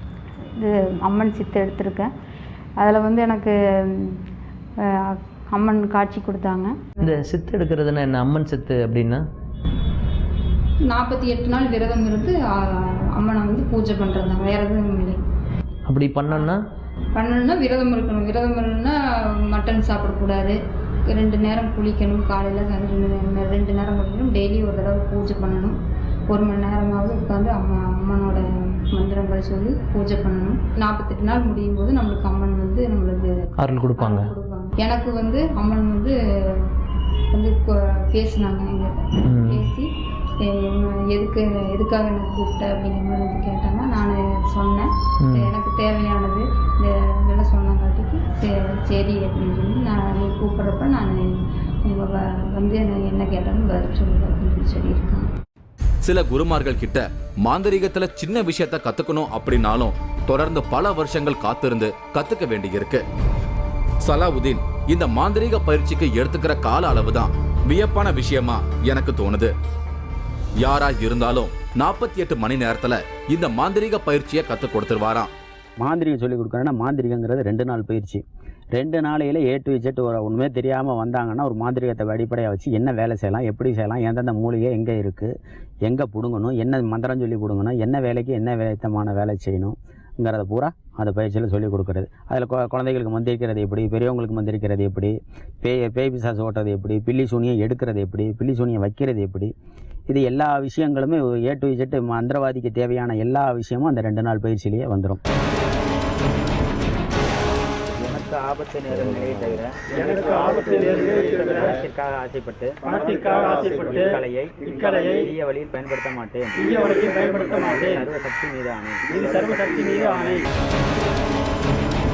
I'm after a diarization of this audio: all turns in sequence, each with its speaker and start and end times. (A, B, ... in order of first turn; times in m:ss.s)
0:00.6-0:02.1 A
0:02.8-0:04.2 A
0:04.8-0:07.1 A
0:07.0-0:09.2 B
0:10.9-0:15.2 A
0:15.9-0:16.6 B
0:17.1-0:20.6 A
0:21.1-0:25.8 A
0:26.3-0:33.4 A
0:33.6-0:34.3 B
0:34.0-0:36.7 A
0:37.3-0:55.3 A
0:39.2-0:39.7 B
0:45.2-0:45.5 B
0:56.0-1:03.0 C
1:04.0-1:09.5 C
1:10.6-1:15.3 C
1:15.8-1:18.2 D
1:18.8-1:25.3 D
1:25.8-1:39.5 D
1:40.1-1:45.2 D
1:47.8-1:59.6 D
1:50.0-1:51.6 E
1:52.9-1:55.2 E
1:56.6-1:58.0 E
1:59.2-2:00.5 E